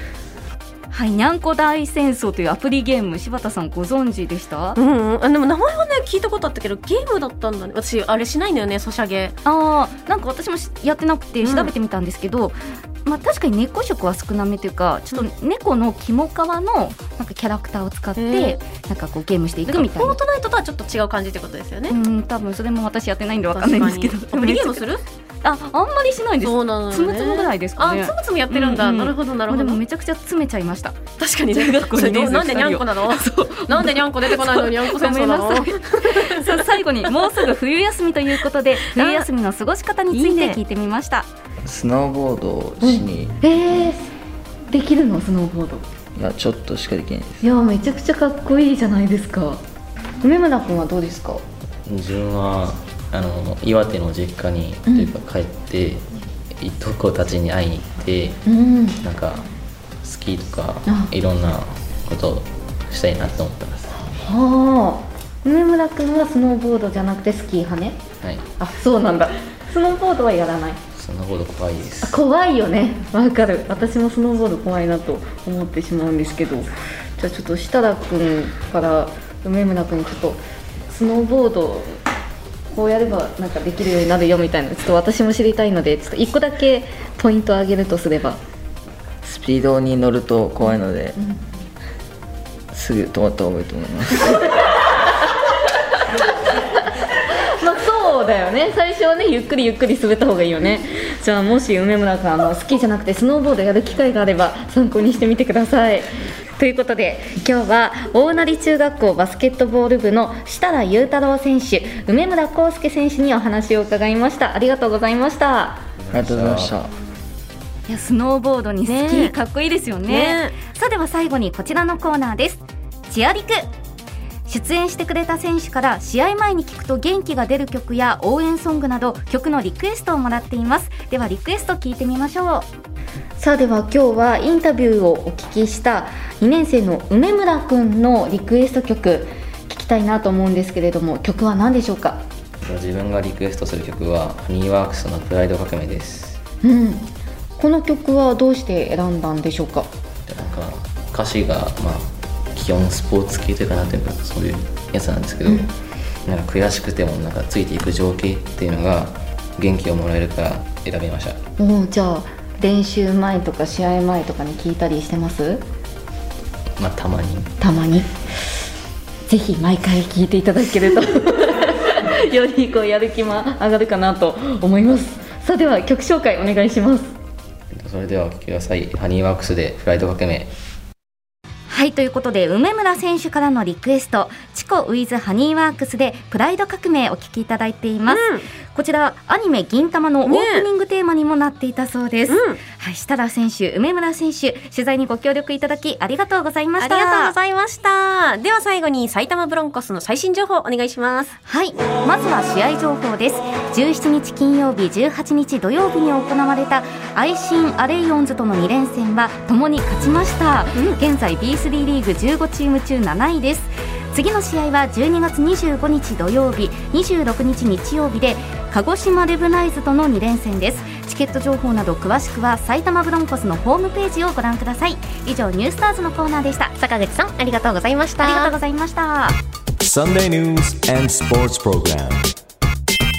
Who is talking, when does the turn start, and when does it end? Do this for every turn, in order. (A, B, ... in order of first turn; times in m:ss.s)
0:00.9-0:04.8 A
0:04.8-0:09.4 B
0:09.4-0:20.2 A
0:11.4-0:11.7 B
0:18.2-0:18.6 B
0:19.7-0:22.0 B
0:21.9-0:24.9 A
0:23.5-0:25.0 B
0:25.4-0:31.0 A
0:26.4-0:29.8 B
0:31.2-0:37.3 B
0:31.5-0:41.3 A
0:38.9-0:39.3 B
0:40.1-0:40.6 B
0:41.6-0:43.4 C
0:42.8-0:44.1 D
0:44.7-0:45.8 D
0:46.2-0:47.5 C
0:47.4-0:49.6 D
0:50.2-0:51.4 D
0:51.9-0:56.1 E
0:54.9-0:55.1 D
0:56.6-0:58.4 E
0:58.5-0:59.0 D
0:59.0-0:59.5 E
1:00.0-1:03.9 E
1:04.1-1:08.0 D
1:08.2-1:08.5 E
1:08.6-1:10.8 D
1:11.0-1:12.2 E
1:12.0-1:22.0 D
1:22.7-1:28.4 D
1:29.2-1:31.2 C
1:32.7-1:34.5 C
1:37.3-1:55.8 D
1:56.0-1:56.8 E
1:56.1-1:56.9 C
1:57.9-2:03.7 A
1:58.8-1:59.4 B
2:00.1-2:00.6 B
2:04.5-2:12.7 A
2:13.4-2:22.2 D
2:22.6-2:26.4 E
2:26.6-2:29.9 D
2:30.3-2:35.7 E
2:36.3-2:41.4 E
2:41.6-2:45.6 D
2:46.8-2:47.5 E
2:47.6-2:48.1 D
2:49.3-2:57.1 D
2:57.7-3:00.5 E
3:01.7-3:17.4 A
3:08.1-3:08.5 B
3:10.3-3:10.7 B
3:12.3-3:12.6 B
3:16.8-3:21.3 B
3:21.4-3:46.8 A
3:30.8-3:31.0 B
3:46.8-3:48.6 B
3:48.2-3:49.4 A
3:49.8-3:52.3 F